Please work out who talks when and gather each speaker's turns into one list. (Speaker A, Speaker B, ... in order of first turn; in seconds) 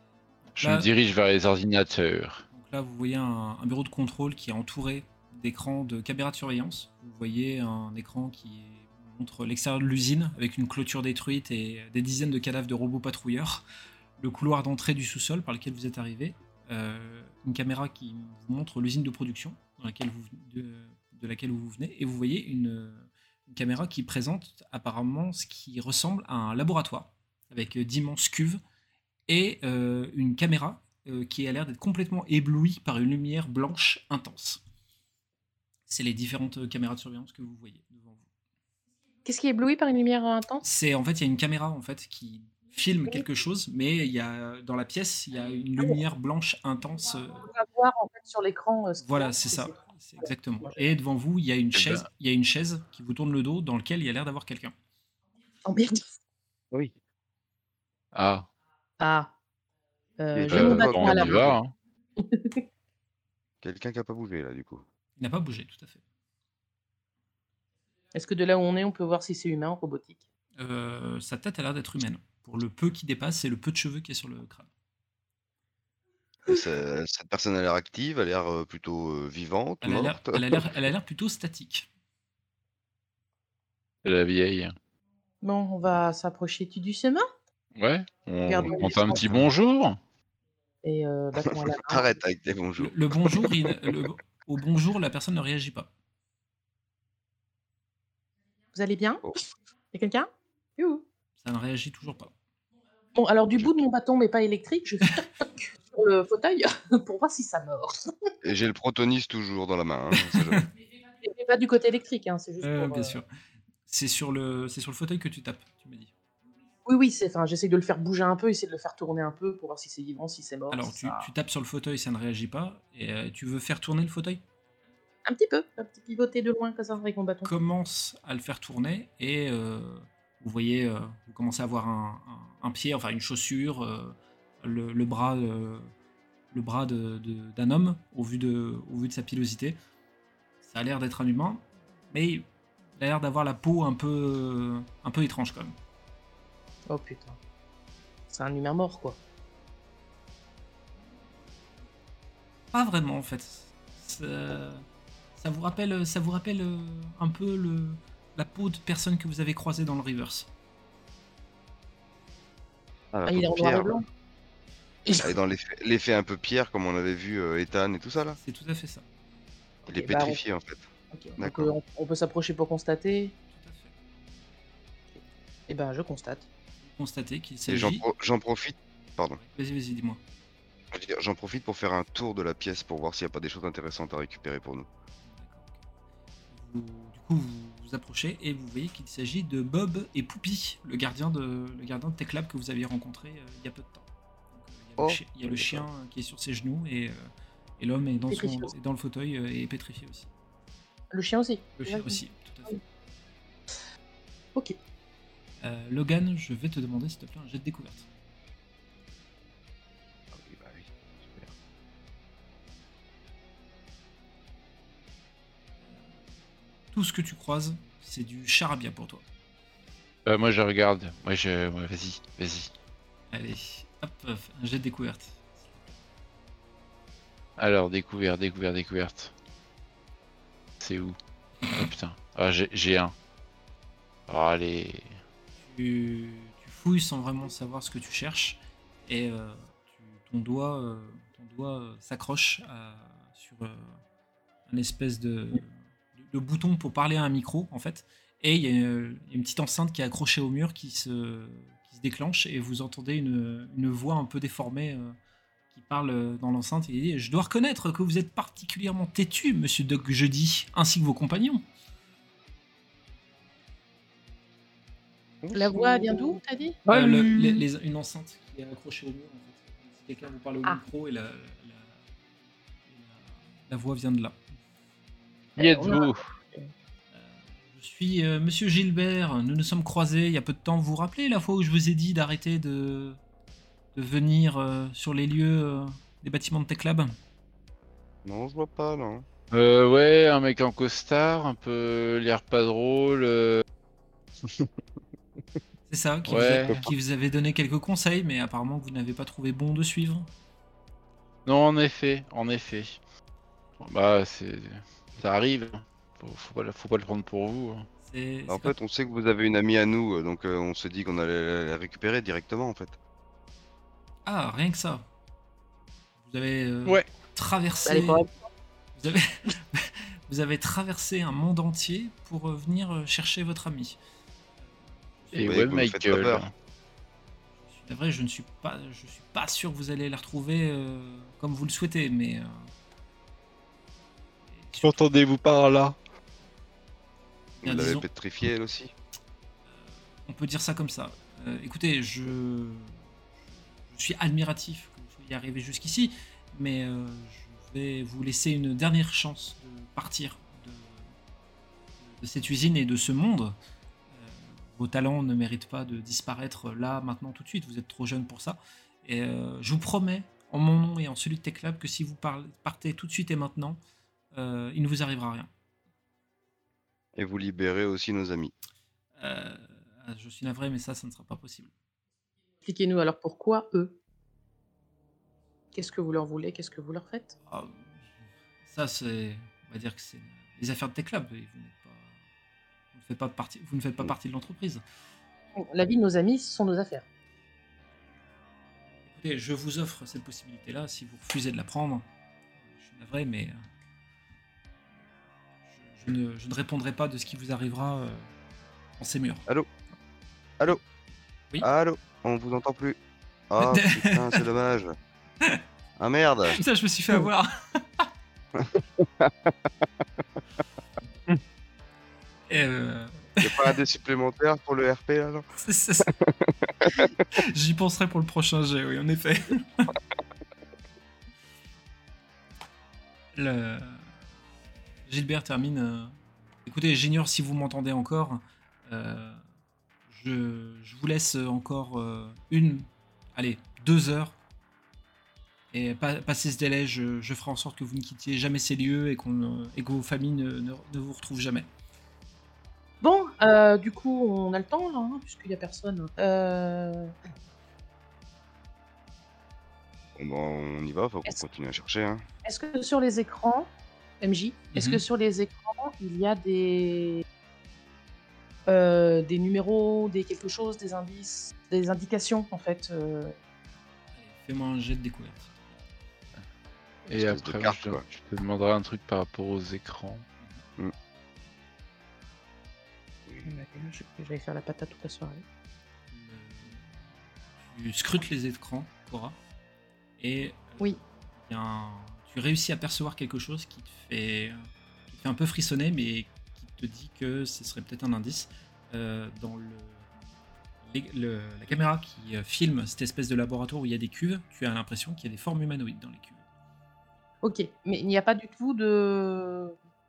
Speaker A: 0.5-0.9, 2.5-13.7, 14.2-28.6, 29.3-34.6, 35.9-38.2, 40.6-47.5, 49.0-54.7, 65.2-66.0, 70.6-74.7, 79.8-81.9, 92.8-95.9, 101.4-102.3, 110.3-110.6, 112.6-113.3, 113.9-116.1, 120.7-124.4, 127.5-135.9, 136.5-139.8, 140.6-145.8, 152.7-154.8, 155.4-160.5, 168.4-169.1, 173.5-174.0, 176.8-178.1, 179.4-180.2, 185.2-185.8, 186.5-200.3, 201.8-202.8, 205.6-208.1, 216.9-219.2, 223.3-226.0, 235.6-244.0, 244.7-255.2, 255.7-261.6, 266.9-272.0, 272.9-274.4, 277.1-283.2, 283.9-287.2, 295.9-300.3, 308.0-308.8, 314.3-315.1, 316.2-318.2, 318.9-324.0, 324.7-325.5, 327.6-332.7, 334.4-335.1, 337.6-338.1, 339.8-343.1, 343.9-351.1, 352.0-353.6, 354.1-363.8, 364.3-365.5, 369.2-371.7, 377.5-378.0, 378.6-382.2, 382.9-384.8, 389.1-392.1, 392.7-393.6, 395.7-398.3, 399.0-399.4, 403.6-404.4, 406.5-408.1, 412.5-413.8, 415.6-416.1, 417.3-419.9, 423.4-424.1, 425.1-429.4, 430.1-434.4, 435.7-441.7, 454.7-455.0, 464.1-465.8, 470.4-470.7, 476.1-477.0, 477.6-479.4, 480.2-490.1, 490.8-496.4
Speaker B: 0.6-2.5, 51.7-52.0, 58.1-58.5, 60.5-61.7, 84.0-84.8, 87.8-90.0, 220.2-222.7, 227.6-229.3, 230.8-233.1, 234.3-235.2, 266.9-267.6, 275.6-276.2, 289.5-293.6, 296.3-296.8, 301.5-303.0, 303.8-307.9, 325.3-326.5, 334.8-336.0, 467.1-470.2
Speaker C: 39.2-40.6, 47.5-49.7, 55.7-56.1, 59.0-59.3, 60.2-61.5, 62.2-62.6, 68.1-70.2, 85.4-87.2, 88.5-89.4, 90.8-92.2, 98.7-99.4, 99.9-101.0, 103.2-108.3, 111.2-113.2, 116.9-121.3, 125.3-127.5, 146.9-147.4, 148.3-149.2, 163.3-164.1, 165.1-165.4, 169.9-170.4, 171.1-173.3, 175.1-176.5, 198.3-198.7, 201.1-202.8, 265.5-266.8, 275.6-276.7, 317.9-318.5, 372.6-374.0, 375.7-377.4, 385.6-387.1, 443.0-447.1, 452.4-457.2, 458.7-463.4, 473.5-475.4, 497.4-499.8
Speaker D: 60.3-61.6, 63.6-64.8, 76.5-80.7, 91.4-94.0, 108.4-110.7, 163.1-163.9, 165.2-168.4, 169.9-171.8, 177.7-179.4, 180.9-184.9, 195.0-195.9, 210.3-211.5, 265.4-266.4, 288.2-289.3, 308.5-313.0, 325.4-326.5, 337.6-338.9, 367.2-368.5, 401.6-403.0, 403.5-404.9, 406.0-406.6, 408.6-409.5, 413.4-415.4, 416.1-417.1, 450.2-452.3, 467.2-468.0